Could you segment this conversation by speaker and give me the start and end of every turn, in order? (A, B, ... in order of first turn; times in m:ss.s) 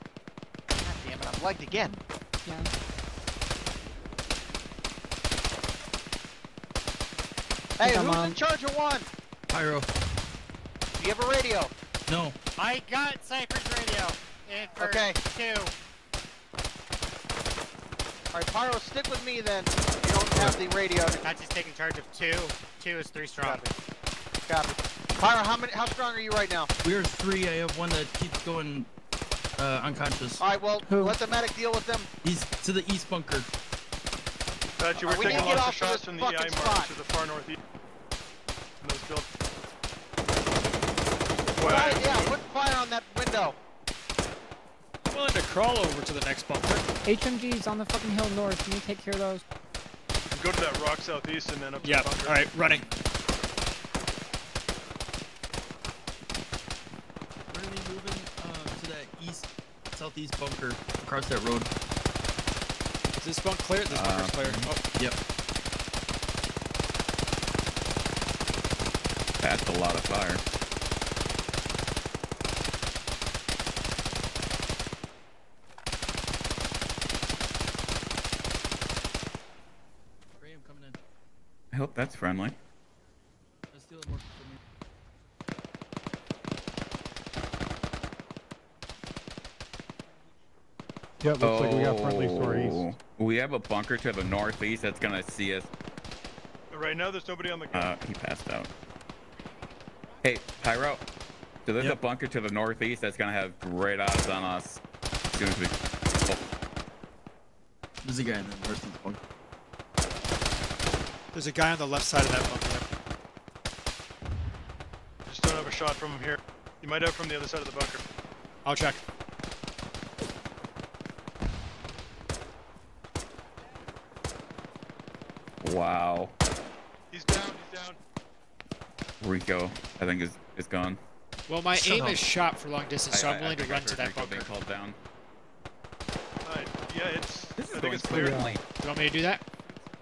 0:00.8-0:02.0 A
0:02.4-0:02.7 B
0:07.8-0:09.1 A
0:07.8-0:08.4 B
0:09.5-0:09.9 C
0:11.0-0:11.7 A
0:12.1-0:12.4 C
0:12.6-0:15.7 D
0:14.8-0:15.2 A
0:18.3-0:21.2 A
0:20.3-0:20.7 C
0:21.2-0:23.6 D
0:23.4-0:23.6 A
0:24.5-0:26.7 A
0:26.8-0:28.9 C
0:29.6-0:30.4 C
0:30.4-0:32.1 A
0:30.9-0:31.2 B
0:32.2-0:33.5 C
0:34.8-0:37.6 E
0:35.0-0:36.9 A
0:38.8-0:39.3 E
0:41.6-0:42.4 E
0:41.6-0:43.6 A
0:45.0-0:46.8 F
0:47.0-0:49.4 B
0:50.3-0:52.5 E
0:51.8-0:53.0 C
0:51.8-0:52.9 F
0:57.5-1:01.7 C
1:03.2-1:04.8 F
1:03.9-1:04.7 G
1:09.4-1:10.4 G
1:20.4-1:21.0 C
1:21.7-1:22.6 G
1:23.7-1:24.6 C
1:31.2-1:32.9 H
1:31.4-1:35.7 G
1:36.7-1:37.9 E
1:37.7-1:38.7 G
1:40.2-1:41.0 G
1:41.7-1:44.8 G
1:45.3-1:46.4 G
1:48.0-1:49.2 C
1:51.3-1:52.9 F
1:55.3-1:58.0 E
1:58.6-1:59.0 F
2:05.6-2:06.3 G
2:07.1-2:08.0 E
2:09.2-2:11.0 G
2:11.5-2:14.5 F
2:11.8-2:12.1 G
2:13.1-2:15.0 G
2:16.4-2:18.5 E
2:17.6-2:18.6 G
2:18.0-2:18.6 H
2:18.7-2:19.4 F